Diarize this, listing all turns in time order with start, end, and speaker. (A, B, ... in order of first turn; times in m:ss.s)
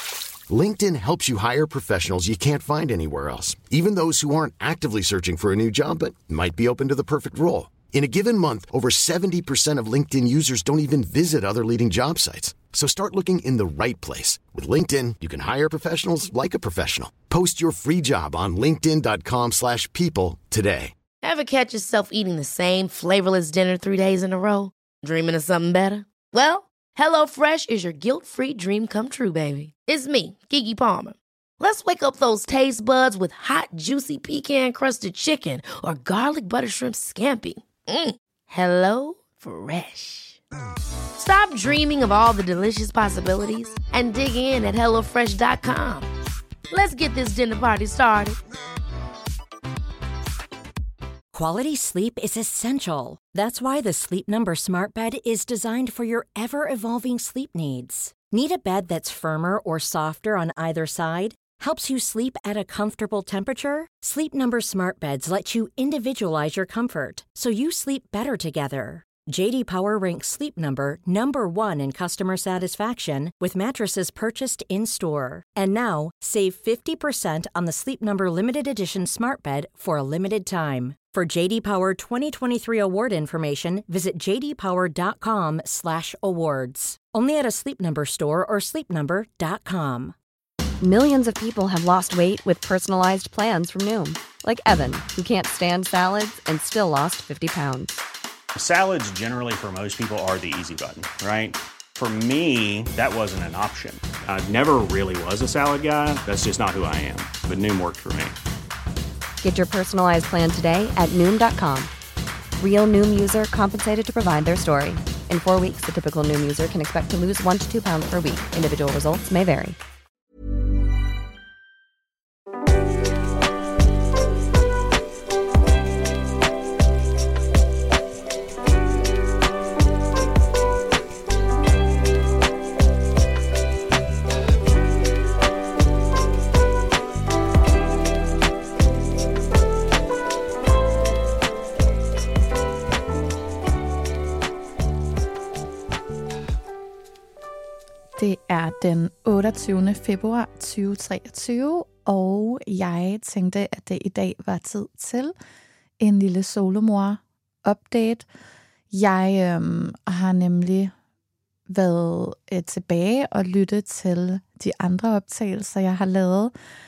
0:00.5-0:20.9 A
0:21.2-0:40.4 B
0:41.2-0:46.1 B
0:46.7-0:48.4 B
0:51.3-1:30.2 C
1:30.8-1:38.0 D
1:38.6-1:48.4 E
1:49.4-1:51.9 D
1:52.6-1:59.8 D
2:28.2-2:35.3 F
2:36.0-2:38.3 F
2:38.9-2:40.9 F
2:41.7-2:46.5 F